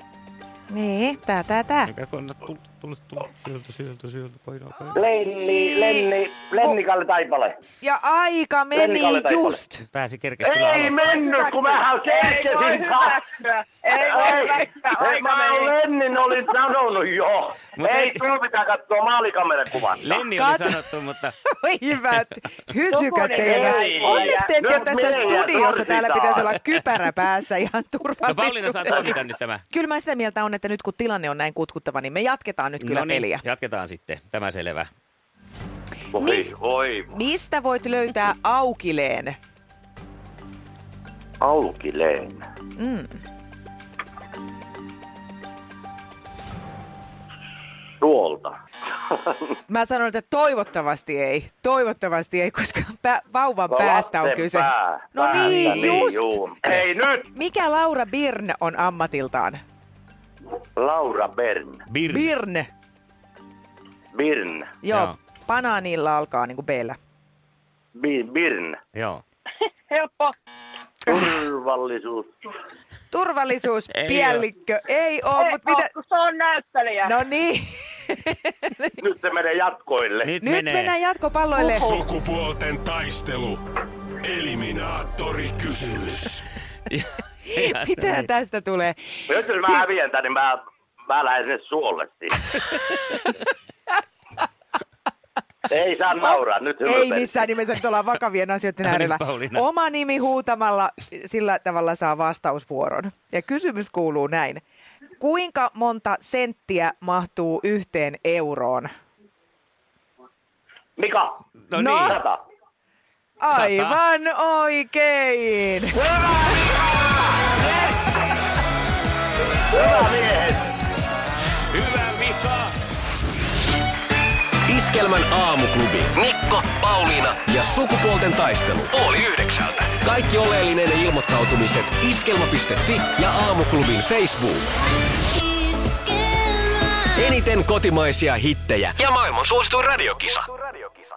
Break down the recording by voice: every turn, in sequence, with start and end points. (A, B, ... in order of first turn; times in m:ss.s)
0:00.7-0:01.9 A
0:01.8-0:05.0 B
0:04.9-0:07.6 C
0:07.8-0:09.8 A
0:08.7-0:09.6 C
0:09.9-0:11.0 B
0:10.4-0:13.2 C
0:11.0-0:15.8 D
0:13.9-0:20.1 C
0:17.8-0:18.2 B
0:20.0-0:21.3 B
0:20.4-0:20.8 A
0:21.5-0:29.1 A
0:22.9-0:24.5 D
0:23.4-0:26.5 C
0:28.2-0:29.6 B
0:29.7-0:33.4 A
0:32.8-0:34.9 B
0:36.1-0:37.1 C
0:36.2-0:36.5 A
0:37.1-0:39.4 A
0:41.4-0:42.4 C
0:42.8-0:43.2 A
0:48.0-0:48.6 C
0:49.1-0:49.4 C
0:49.7-0:56.3 A
0:53.7-0:57.3 C
0:57.3-0:59.6 A
1:00.8-1:01.8 C
1:01.9-1:02.3 B
1:02.1-1:02.7 A
1:04.1-1:04.7 C
1:04.8-1:07.0 A
1:04.9-1:05.2 B
1:07.9-1:08.8 C
1:08.9-1:09.2 B
1:09.9-1:10.3 D
1:11.0-1:12.3 C
1:13.1-1:15.9 A
1:13.9-1:14.4 B
1:15.4-1:17.2 D
1:17.0-1:18.9 A
1:19.0-1:20.3 C
1:20.2-1:21.0 B
1:20.4-1:22.0 A
1:21.6-1:22.1 D
1:21.8-1:23.6 E
1:24.2-1:26.4 E
1:27.5-1:29.0 A
1:27.6-1:28.2 B
1:29.3-1:32.5 C
1:29.6-1:29.8 A
1:35.7-1:37.3 C
1:36.2-1:44.6 A
1:38.8-1:39.6 B
1:45.2-1:48.9 A
1:51.0-1:51.4 C
1:51.7-1:52.2 B
1:51.7-1:52.2 A
1:52.0-1:52.4 C
1:53.4-1:56.0 A
1:53.5-1:54.0 B
1:56.0-1:57.1 C
1:59.7-2:00.7 C
2:01.7-2:02.7 B
2:04.7-2:14.7 F
2:17.1-2:20.7 F